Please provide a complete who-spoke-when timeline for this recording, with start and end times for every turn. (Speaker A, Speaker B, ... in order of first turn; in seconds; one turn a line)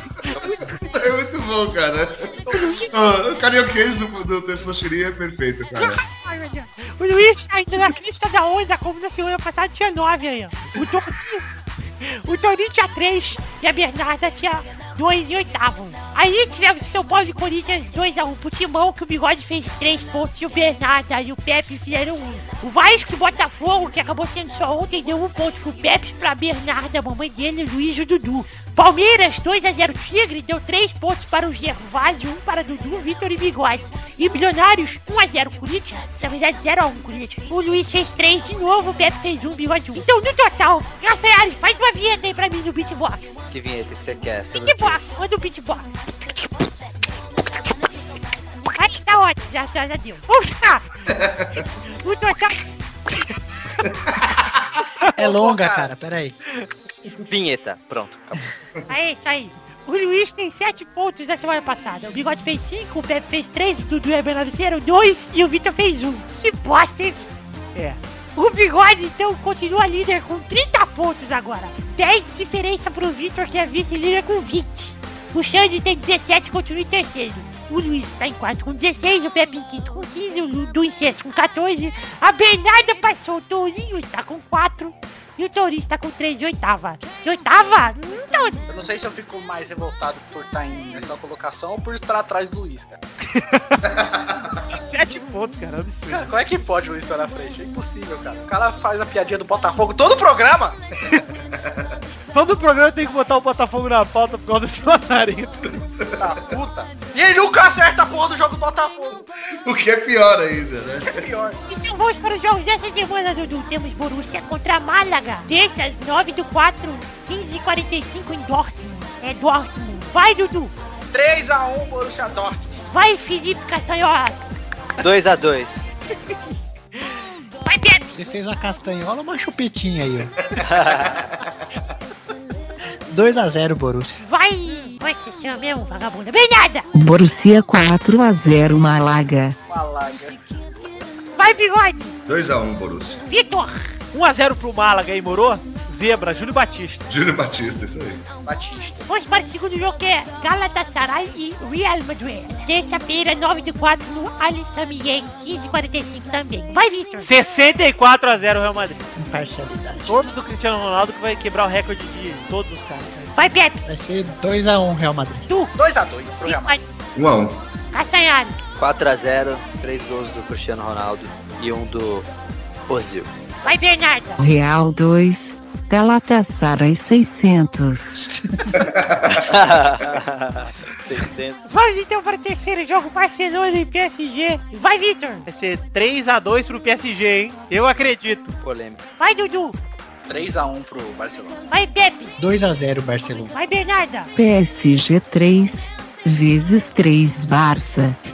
Speaker A: 0.2-6.0
Speaker B: 0.3-0.7
Speaker B: 2.6-2.8
Speaker B: 5.7-11.4
Speaker A: 10.8-11.1
Speaker B: 12.0-43.3
Speaker C: 43.5-45.0
Speaker B: 44.5-45.9
Speaker B: 48.7-50.9
Speaker A: 51.1-51.6
Speaker B: 52.0-52.6
Speaker A: 53.9-54.5
Speaker D: 55.1-55.9
Speaker E: 55.1-56.4
Speaker C: 57.3-58.5
Speaker B: 58.9-67.2
Speaker B: 68.3-88.7
Speaker D: 88.7-93.0
Speaker F: 93.3-93.8
Speaker A: 93.8-94.4
Speaker F: 94.7-96.3
Speaker D: 96.1-100.8
Speaker A: 101.1-101.9
Speaker F: 102.3-105.8
Speaker D: 106.2-109.2
Speaker A: 109.6-111.2
Speaker D: 111.0-111.6
Speaker B: 111.7-120.7
Speaker D: 121.1-122.8
Speaker B: 122.9-124.4
Speaker C: 125.0-125.8
Speaker B: 127.6-128.1
Speaker E: 128.1-130.3
Speaker A: 130.5-131.4
Speaker C: 130.6-131.2
Speaker E: 133.1-134.2
Speaker B: 134.2-136.9
Speaker G: 136.9-139.5
Speaker D: 139.7-141.0
Speaker B: 141.4-142.2
Speaker A: 142.3-143.2
Speaker B: 143.3-143.9
Speaker F: 144.1-147.0
Speaker A: 147.1-148.2
Speaker D: 148.4-149.1
Speaker B: 149.1-157.3
Speaker F: 157.2-159.1
Speaker E: 159.2-160.1
Speaker F: 160.1-163.3
Speaker B: 163.3-163.8
Speaker E: 163.8-165.4
Speaker D: 165.8-166.8
Speaker B: 166.4-166.8
Speaker A: 167.2-167.6
Speaker B: 167.9-168.6
Speaker C: 168.8-172.2
Speaker C: 172.9-173.3
Speaker B: 173.6-174.4
Speaker G: 174.4-178.2
Speaker E: 178.2-178.8
Speaker A: 178.7-179.8
Speaker C: 179.3-181.8
Speaker B: 181.7-185.4
Speaker F: 185.4-188.6
Speaker C: 188.6-189.0
Speaker B: 189.2-189.8
Speaker D: 190.3-191.6
Speaker B: 191.7-192.3
Speaker E: 192.4-193.5
Speaker B: 193.5-194.3
Speaker G: 194.3-198.2